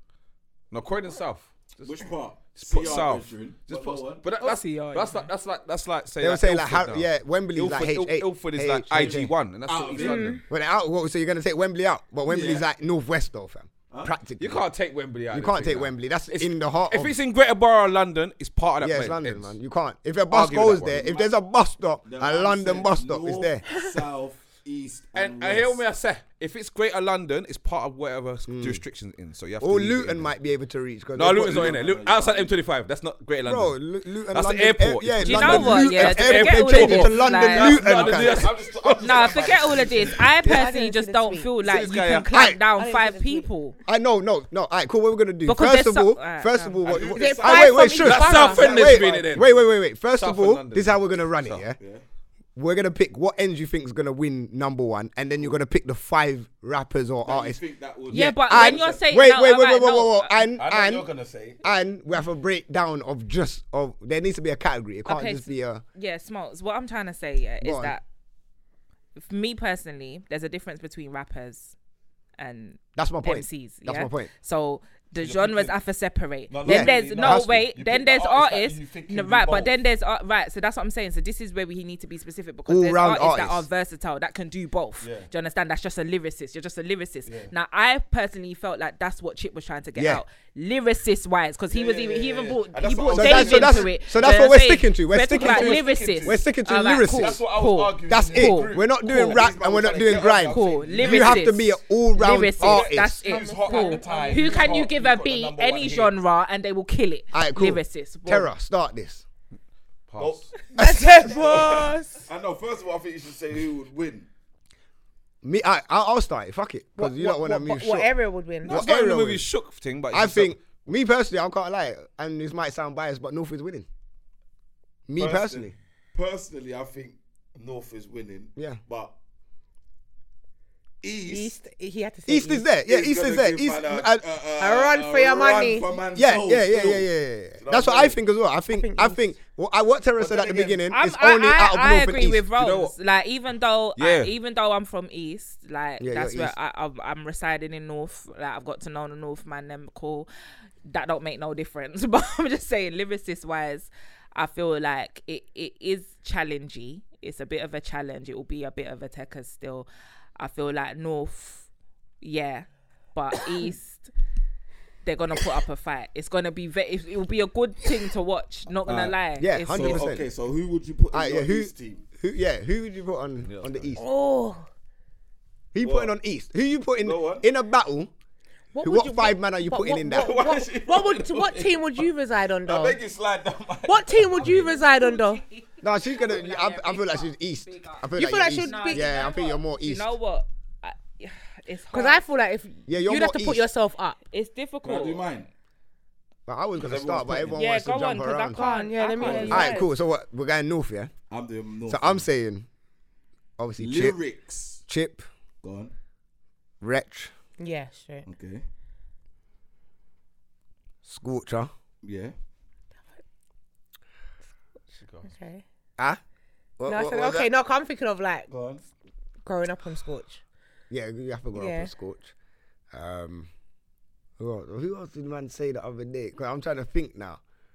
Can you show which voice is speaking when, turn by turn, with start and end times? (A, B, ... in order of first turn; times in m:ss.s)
0:00.7-0:10.4 A
0:01.8-0:04.2 B
0:04.4-0:05.3 C
0:06.2-0:09.3 D
0:09.0-0:10.4 B
0:10.0-0:10.4 E
0:10.5-0:14.6 D
0:12.3-0:12.6 B
0:14.4-0:19.6 A
0:15.3-0:17.1 D
0:18.8-0:23.6 D
0:20.3-0:21.2 A
0:22.0-0:25.8 B
0:25.1-0:30.3 A
0:28.5-0:28.8 D
0:29.6-0:31.8 D
0:31.1-0:33.8 A
0:31.3-0:32.5 B
0:33.4-0:38.5 D
0:34.3-0:40.1 A
0:35.2-0:37.9 C
0:37.6-0:40.3 B
0:39.0-0:43.8 C
0:40.4-0:41.5 E
0:41.6-0:42.3 A
0:42.3-0:42.6 D
0:42.7-0:43.5 E
0:43.9-0:51.8 D
0:45.4-0:46.9 C
0:46.8-0:49.6 B
0:47.1-0:49.0 E
0:48.0-0:49.5 A
0:50.1-0:51.6 A
0:52.6-1:01.1 D
0:57.2-0:59.0 B
0:58.1-1:00.4 C
1:00.6-1:01.6 B
1:01.6-1:05.8 D
1:05.0-1:08.0 C
1:07.6-1:08.0 D
1:09.2-1:11.8 C
1:12.4-1:39.2 C
1:13.0-1:14.3 D
1:15.2-1:15.8 B
1:16.5-1:19.7 B
1:16.6-1:17.6 D
1:22.7-1:23.6 D
1:25.0-1:25.3 B
1:27.2-1:27.5 B
1:30.0-1:30.2 D
1:31.7-1:34.5 B
1:33.1-1:37.4 D
1:35.3-1:36.5 B
1:37.1-1:41.5 B
1:38.1-1:43.3 D
1:40.5-1:48.5 C
1:42.6-1:46.2 B
1:43.2-1:44.8 E
1:47.3-1:49.2 D
1:50.1-1:50.5 A
1:50.2-1:54.3 B
1:50.8-1:52.3 E
1:50.8-1:51.0 D
1:55.4-1:58.1 D
1:57.0-1:58.8 E
1:58.6-2:00.6 A
1:58.6-1:59.4 D
2:00.1-2:03.8 D
2:05.1-2:05.7 D
2:05.1-2:09.1 B
2:11.0-2:11.5 B
2:11.2-2:12.7 E
2:12.3-2:14.2 D
2:12.8-2:18.2 B
2:14.6-2:15.9 E
2:16.1-2:22.5 D
2:18.8-2:19.2 E
2:20.2-2:20.8 B
2:20.9-2:30.3 C
2:22.6-2:22.9 A
2:24.0-2:24.3 A
2:26.0-2:26.5 D
2:30.8-2:41.7 C
2:42.2-2:44.1 C
2:45.0-2:50.0 C
2:48.8-2:49.2 B
2:49.4-2:50.2 D
2:49.7-2:52.0 B
2:51.1-2:54.0 D
2:53.4-2:54.0 A
2:54.0-2:54.6 E
2:55.7-2:58.1 D
2:55.8-2:56.1 B
2:57.0-2:57.4 B
2:58.7-3:03.0 E
2:58.8-3:00.4 D
3:00.1-3:02.0 B
3:02.6-3:04.7 B
3:03.8-3:05.4 E
3:04.4-3:12.2 C
3:05.8-3:10.1 D
3:08.2-3:09.4 E
3:11.9-3:14.2 E
3:12.9-3:13.6 D
3:14.3-3:15.3 C
3:14.8-3:15.5 B
3:16.5-3:18.6 D
3:16.8-3:17.6 B
3:17.5-3:19.9 C
3:18.5-3:19.8 E
3:19.2-3:19.7 B
3:19.4-3:21.1 D
3:21.3-3:22.2 B
3:21.9-3:22.6 D
3:23.6-3:24.2 D
3:23.8-3:24.8 B
3:24.9-3:25.2 D
3:25.6-3:25.9 B
3:26.8-3:27.3 D
3:27.6-3:28.3 E
3:28.2-3:28.6 B
3:31.0-3:31.7 D
3:32.0-3:32.3 B
3:34.9-3:35.3 A
3:35.2-3:35.6 E
3:36.8-3:37.5 D
3:36.8-3:38.5 E
3:38.5-3:38.9 B
3:39.4-3:40.4 E
3:40.9-3:42.3 D
3:41.5-3:41.9 E
3:42.9-3:43.5 D
3:44.4-3:47.4 D